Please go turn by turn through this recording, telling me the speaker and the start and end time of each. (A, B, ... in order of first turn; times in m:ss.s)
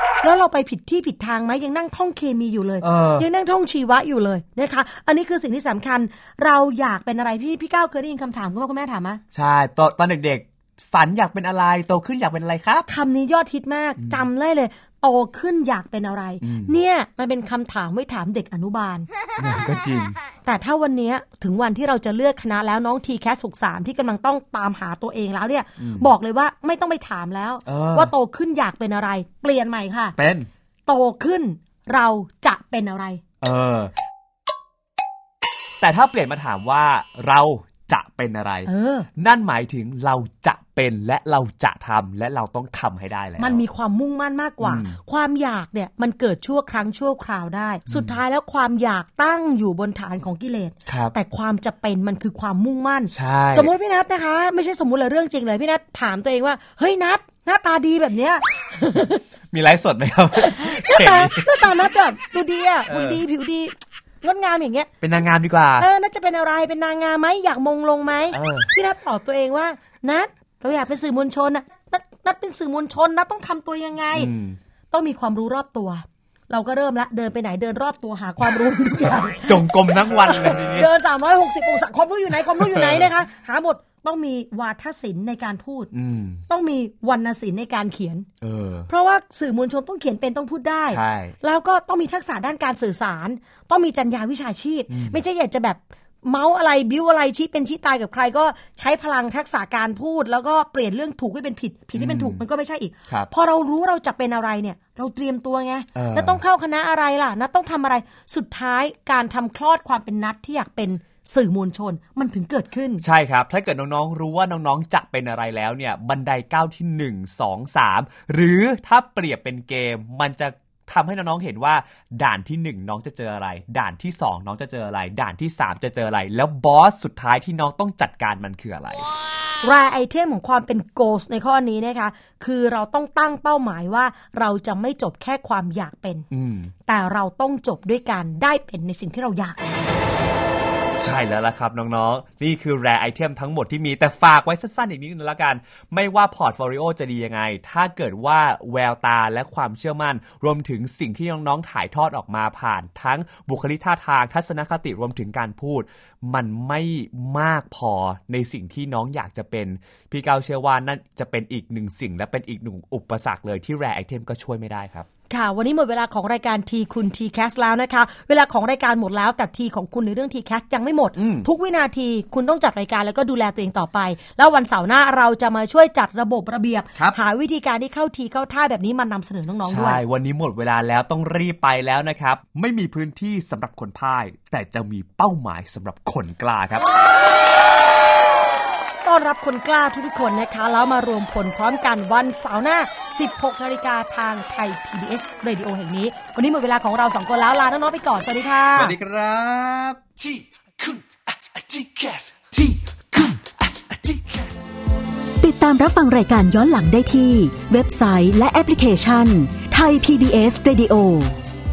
0:00.2-0:09.2 A
0:02.8-0:03.3 B
0:09.3-0:12.9 B
0:12.9-0:19.1 A
0:14.0-0:14.2 B
0:16.4-0:16.8 B
0:19.4-0:20.2 B
0:20.5-0:30.2 A
0:25.8-0:26.1 B
0:27.7-0:28.1 B
0:30.2-0:30.5 B
0:30.9-0:33.2 A
0:33.4-0:33.9 B
0:35.8-0:43.6 B
0:38.7-0:39.1 A
0:43.4-0:59.2 A
0:44.6-0:45.0 B
0:47.9-0:48.2 B
0:50.9-0:51.2 B
0:53.1-0:53.7 B
0:59.5-1:01.9 B
1:00.4-1:04.9 A
1:02.9-1:03.2 B
1:05.0-1:05.9 B
1:05.8-1:14.3 A
1:08.3-1:08.7 B
1:14.2-1:14.6 B
1:14.9-1:25.9 A
1:19.5-1:20.9 B
1:22.5-1:23.1 B
1:25.9-1:26.4 B
1:26.5-1:28.3 A
1:28.4-1:28.9 B
1:28.9-1:53.0 A
1:30.9-1:31.4 B
1:34.9-1:35.2 B
1:42.0-1:42.4 B
1:46.0-1:46.4 B
1:53.0-2:09.1 B
2:09.6-2:16.3 A
2:16.3-2:16.7 B
2:16.9-2:19.7 A
2:21.0-2:45.1 B
2:45.3-3:00.0 A
2:51.2-2:51.5 B
2:59.6-3:06.8 B
3:09.0-3:19.0 A
3:18.7-3:20.4 B
3:20.8-3:24.5 C
3:21.0-3:23.4 B
3:25.4-3:31.4 D